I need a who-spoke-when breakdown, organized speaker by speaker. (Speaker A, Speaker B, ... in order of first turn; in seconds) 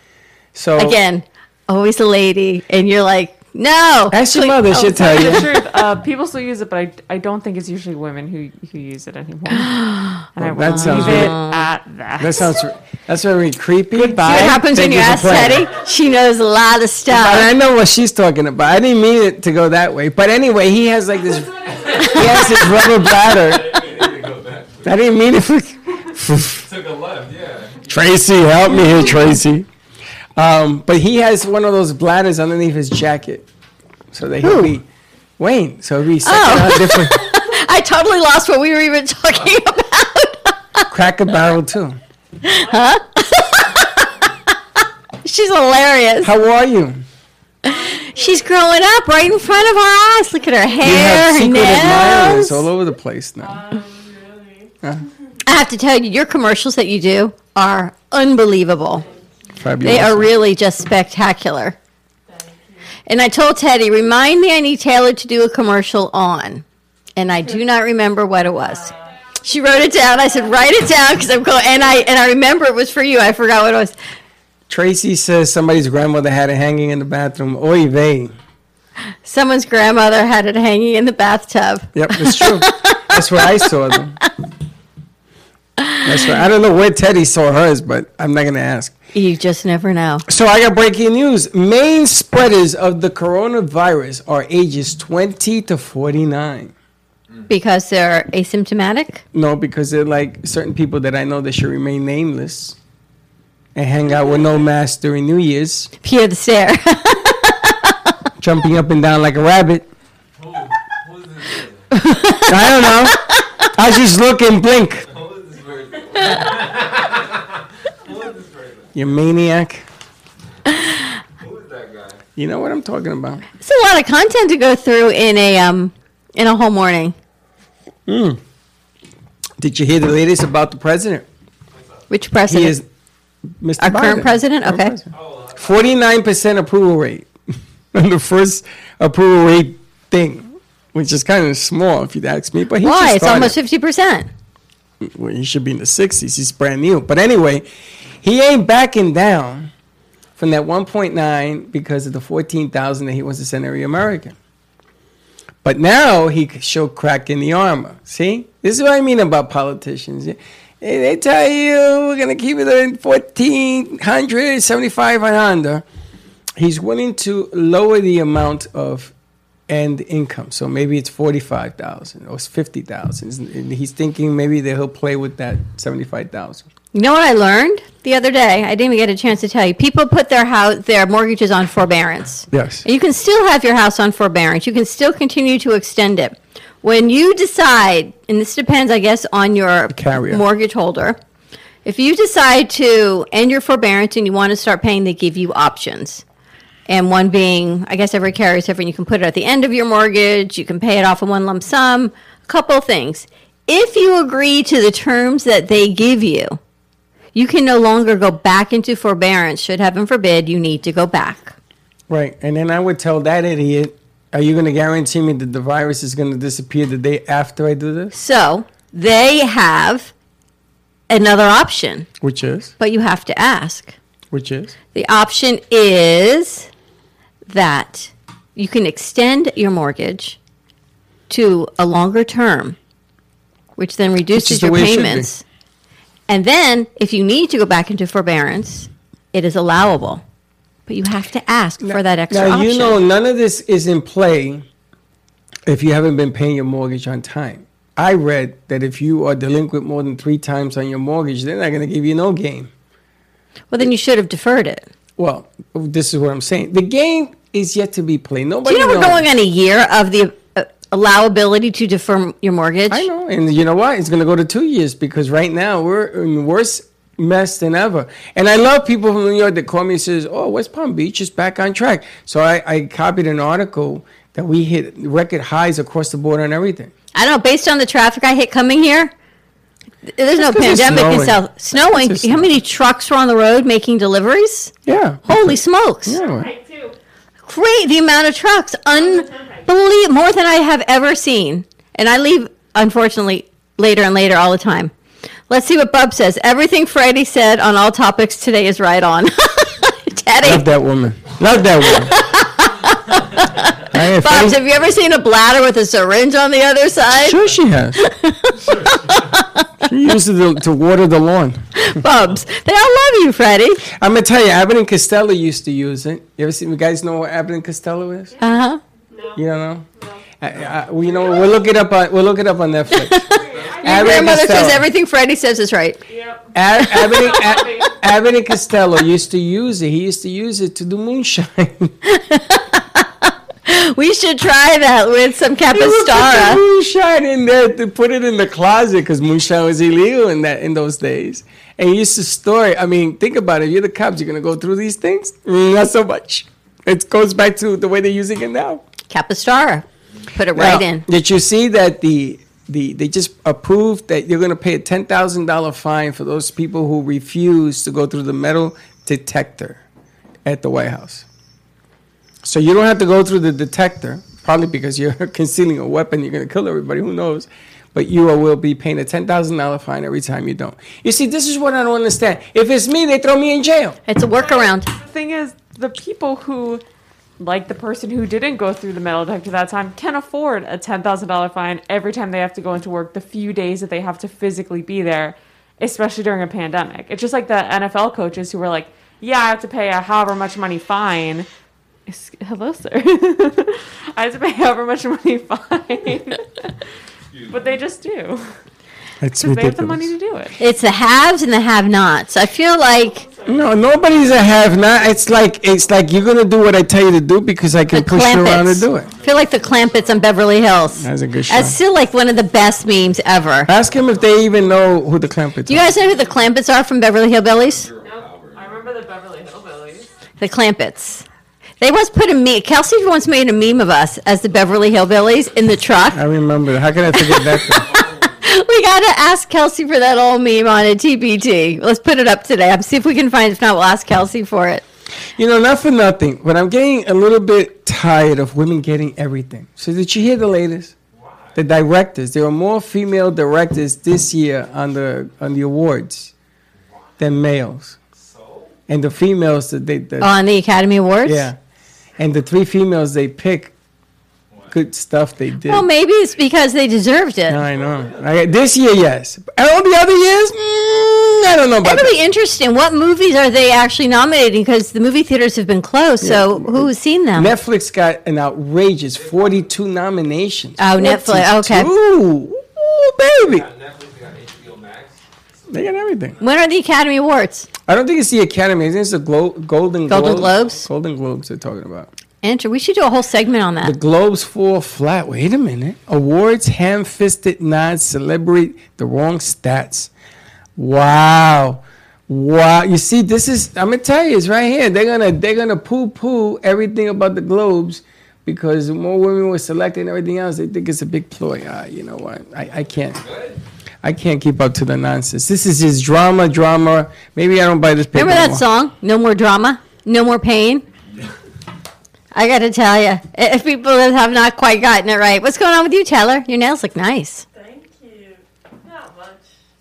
Speaker A: 0.5-1.0, 4.1-5.5, 10.4-11.3, 12.2-15.7, 17.1-24.1, 24.8-26.7, 27.8-29.6, 30.4-33.5, 34.1-34.9, 35.4-37.2, 40.9-42.0, 46.2-47.0, 50.8-53.7, 59.6-60.3, 74.7-78.3, 81.9-84.2, 86.0-89.0, 90.3-96.7, 99.3-102.8, 103.7-105.9, 108.4-109.9, 112.5-115.1, 118.9-119.8, 122.3-123.5, 128.1-128.4, 129.6-131.3, 132.5-132.8, 133.6-137.3, 137.9-143.5, 145.0-147.6, 148.2-149.7, 150.4-154.3, 155.6-165.8, 166.6-169.1, 169.7-176.7, 182.5-182.8, 189.9-190.4, 212.1-218.1, 222.2-222.7, 224.3-224.7, 234.3-235.3, 241.8-244.6, 245.7-252.7, 255.2-259.2, 262.9-276.9, 280.4-282.4, 284.9-285.4, 286.1-286.5, 300.4-302.1, 303.9-304.6, 307.1-308.0, 309.8-311.9, 313.9-318.3, 319.3-319.9, 320.4-324.9, 326.5-331.9, 335.7-348.8, 350.5-359.8, 360.4-361.2, 362.4-374.0, 399.2-400.1, 403.4-409.1, 411.0-411.8, 413.6-415.9, 426.1-428.0, 435.4-440.9, 441.5-446.3, 447.2-448.0, 448.9-450.3, 451.2-451.6, 452.2-453.7, 454.7-455.9, 457.5-462.1, 466.2-473.7, 475.7-476.4, 477.9-482.1, 483.8-490.1, 490.8-503.2, 504.0-508.6
Speaker B: 0.8-5.5, 9.5-11.7, 13.9-17.5, 34.4-34.7, 36.2-40.9, 42.4-44.3, 45.2-46.3, 47.6-52.6, 55.5-59.0, 59.8-61.8, 63.1-66.6, 67.2-73.9, 79.2-83.4, 85.8-86.4, 89.1-90.2, 97.5-99.2, 106.0-107.9, 111.9-113.3, 123.6-127.1, 132.1-132.8, 133.8-134.9, 142.8-144.3, 176.9-191.2, 191.8-196.2, 196.9-206.6, 207.3-211.6, 218.1-220.1, 221.1-222.1, 222.8-223.9, 224.9-226.7, 227.5-230.4, 231.3-232.7, 233.8-235.4, 236.3-240.2, 240.9-243.0, 253.7-254.9, 258.6-263.1, 277.1-279.1, 280.1-284.7, 285.2-286.2, 287.4-294.9, 295.5-300.6, 301.9-307.4, 308.0-309.7, 311.7-313.9, 318.4-318.8, 322.9-326.0, 332.0-336.6, 349.1-351.0, 374.1-374.9, 400.6-403.2, 407.9-413.7, 415.6-417.9, 420.4-421.2, 421.8-426.2, 427.1-434.8, 450.2-451.5, 455.6-457.6, 461.8-467.6, 470.8-471.9, 476.4-477.7, 480.1-480.8, 482.4-483.9, 508.1-510.8, 512.3-517.4
Speaker C: 4.8-12.6, 326.1-327.9, 374.9-376.8, 377.4-391.5, 392.1-396.8, 397.5-398.5, 399.4-400.6, 418.0-420.1
Speaker D: 21.4-22.1, 47.7-48.5, 53.4-54.7, 59.0-59.4, 62.3-62.8, 68.6-69.1, 286.1-286.9, 288.9-289.6, 319.1-320.3, 320.9-321.6, 323.3-324.1, 403.0-403.8, 517.5-519.5
Speaker E: 23.4-24.9, 26.6-27.9, 110.5-111.8, 115.1-118.9, 121.4-122.2, 135.2-135.9, 397.3-397.8, 404.3-404.9, 409.2-410.3, 414.1-415.0, 417.6-418.7, 427.9-428.3, 441.2-441.6, 448.2-448.7, 457.7-458.5, 469.2-469.7, 473.4-476.4, 503.3-503.5